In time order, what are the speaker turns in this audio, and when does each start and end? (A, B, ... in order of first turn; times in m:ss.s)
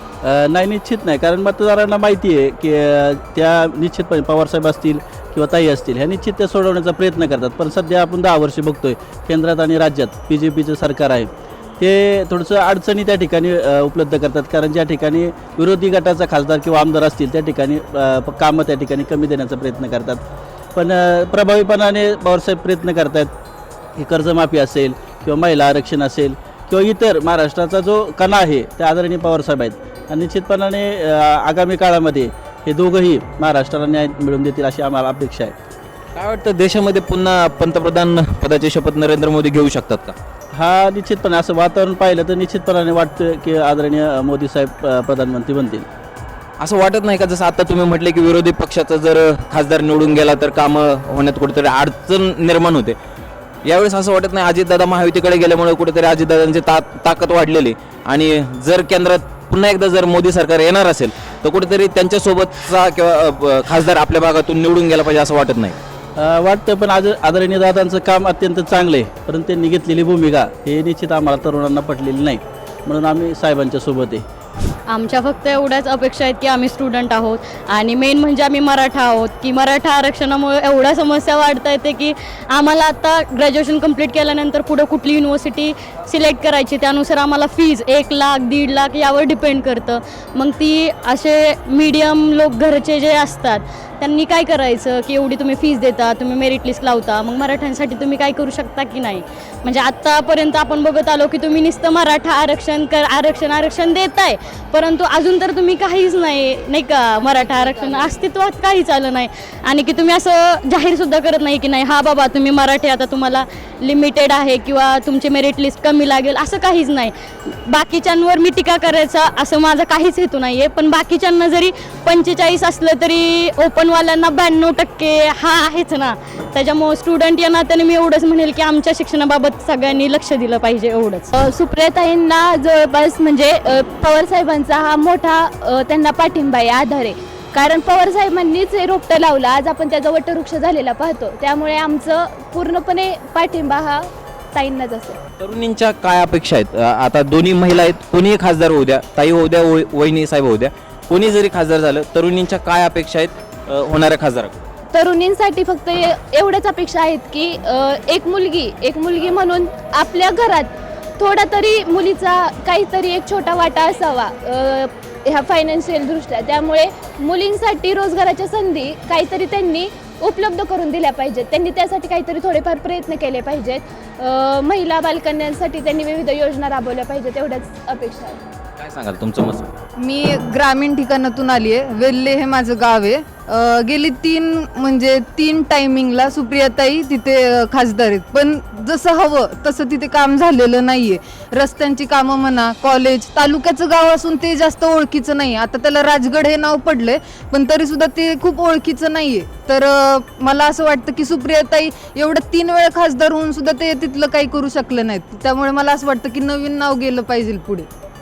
0:00.2-0:20.2 A
0:20.7-0:23.3 A
0:24.0-0:35.5 A
0:36.1-0:40.2 B
0:40.5-0:45.8 A
0:46.6-0:53.0 B
0:53.6-1:05.8 B
1:06.2-1:14.2 A
1:14.9-2:11.3 C
2:11.3-2:25.2 D
2:25.4-2:34.6 B
2:34.9-2:58.4 D
2:58.8-2:59.7 B
3:00.0-3:27.9 E